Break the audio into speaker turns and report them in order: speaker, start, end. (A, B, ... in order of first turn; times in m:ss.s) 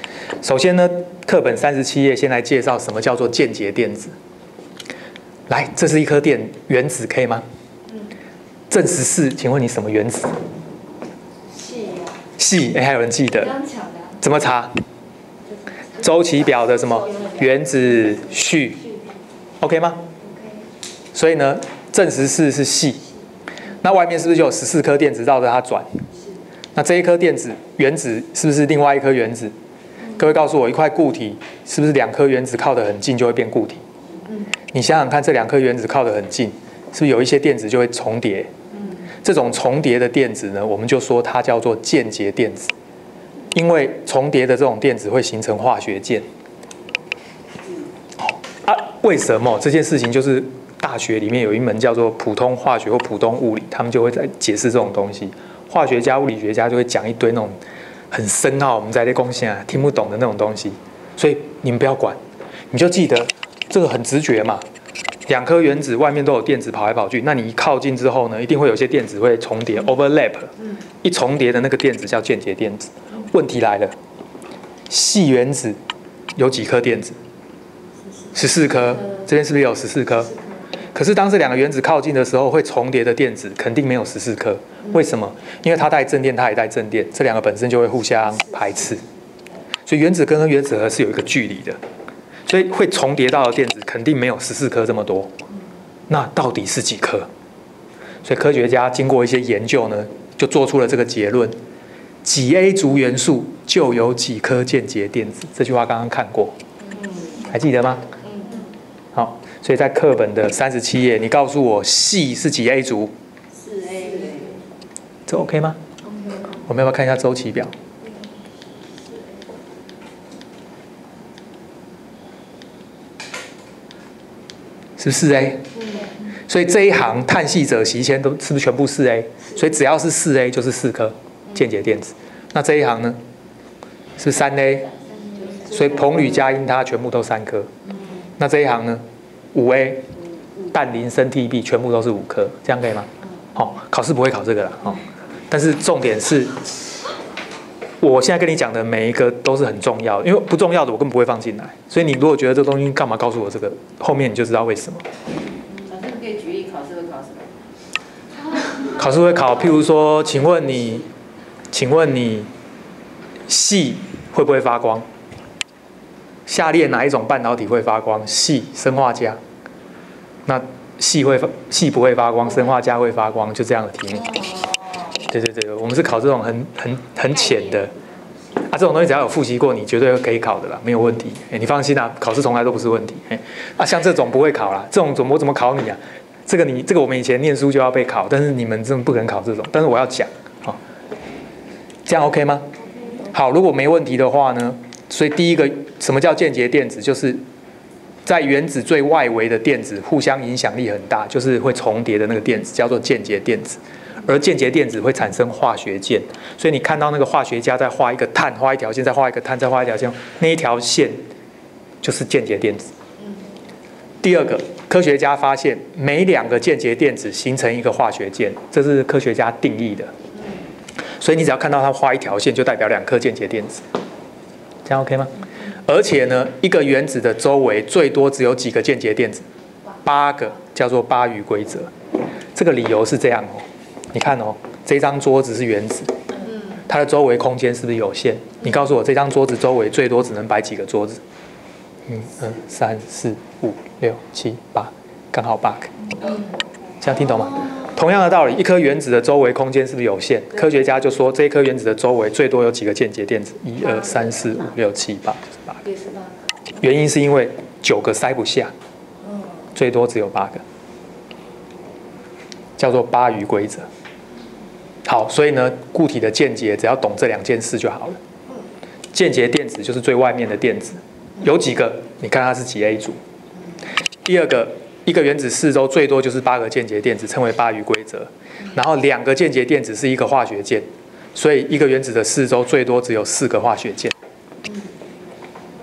0:00.4-0:04.1 A
0:05.5-0:07.4 A
0:08.7-0:10.4 A
0:11.5-0:12.2 B
0:12.4-0:13.6 A
0:13.4-0:14.2 B
0:14.2-0:14.7 A
0:16.0-0:18.8 A
0:16.7-0:17.4 B
0:19.6-0:20.0 A
0:20.2-0:20.6 B
0:21.1-0:23.1 A
0:23.8-0:26.0 A
0:26.8-0:29.5 A
0:30.2-0:33.8 A
0:34.7-0:38.5 A
0:39.1-0:42.7 A
0:43.5-0:46.2 A
0:48.3-0:57.6 A
0:58.1-1:02.2 A
1:02.7-1:04.6 A
1:05.3-1:13.9 A
1:14.9-1:15.8 A
1:16.4-1:17.2 A
1:18.3-1:20.3 A
1:20.9-1:29.0 A
1:29.9-1:31.8 A
1:32.5-1:35.3 A
1:36.1-1:37.3 A
1:38.2-1:41.6 A
1:42.2-1:46.6 A
1:46.9-1:47.4 B
1:47.4-1:48.1 A
1:48.2-1:48.7 B
1:49.1-1:53.1 A
1:53.6-1:54.6 B
1:55.3-1:55.8 A
1:56.1-1:56.6 B
1:56.6-1:57.7 A
2:05.0-2:05.7 A
2:05.8-2:06.2 B
2:06.3-2:13.2 A
2:14.2-2:14.9 A
2:15.2-2:16.2 B
2:15.6-2:17.7 A
2:18.4-2:20.1 A
2:20.7-2:26.6 A
2:28.0-2:35.0 A
2:35.7-2:37.5 B
2:38.8-2:41.1 A
2:41.7-2:42.5 A
2:43.5-2:45.1 A
2:46.5-2:49.4 A
2:50.5-2:54.3 A
2:54.2-2:55.2 B
2:55.2-2:58.0 A
2:58.6-3:10.8 A
3:12.1-3:12.7 A
3:13.2-3:17.4 A
3:18.2-3:31.2 A
3:32.0-3:32.9 A
3:34.2-3:40.1 A
3:41.2-3:43.8 A
3:44.8-3:49.5 A
3:50.0-3:51.9 A
3:52.6-3:56.2 A
3:56.8-4:01.2 A
4:02.1-4:06.3 A
4:07.0-4:15.8 A
4:07.4-4:07.8 B
4:15.8-4:16.3 B
4:16.8-4:18.7 A
4:19.7-4:20.6 A
4:22.8-4:23.9 A
4:25.0-4:28.2 A
4:29.1-4:33.2 A
4:34.2-4:44.2 A
4:44.7-4:44.9 B